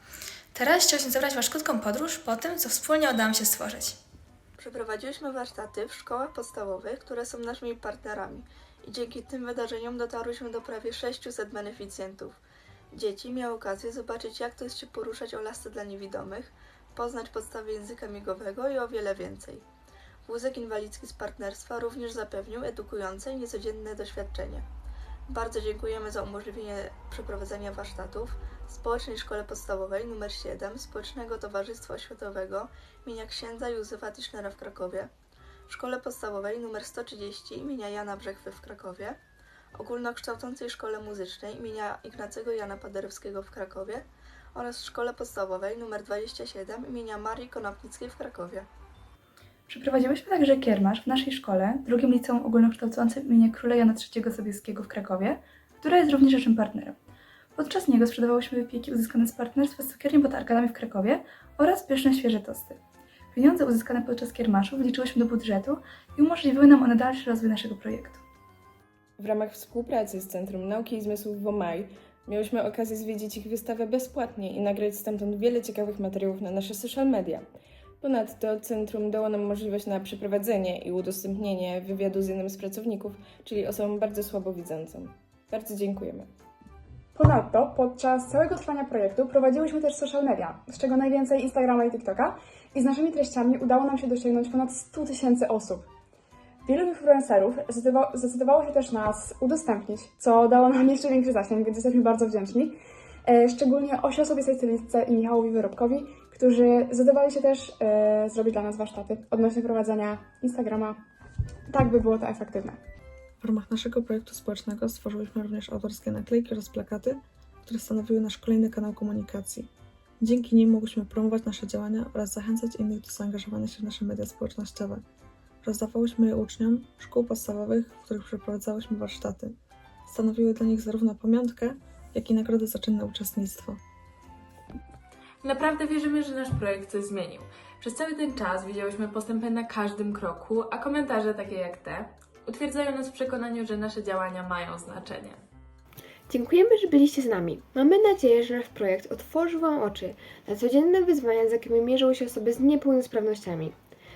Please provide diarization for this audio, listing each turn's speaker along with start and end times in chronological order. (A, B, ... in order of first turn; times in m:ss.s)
0:00.5-0:04.0 A
0:04.6-0:12.4 B
0:12.9-0:19.6 B
0:20.2-0:24.6 B
0:25.3-0:35.1 B
0:35.7-0:39.2 B
0:39.7-0:48.7 B
0:49.7-0:57.0 C
0:57.5-1:02.8 C
1:03.3-1:08.2 C
1:09.2-1:17.4 D
1:18.0-1:26.3 D
1:27.1-1:35.9 E
1:36.6-1:51.0 E
1:51.7-1:52.8 E
1:53.4-2:05.0 F
2:05.6-2:09.5 F
2:10.1-2:13.8 F
2:15.4-2:25.4 G
2:26.3-2:33.8 H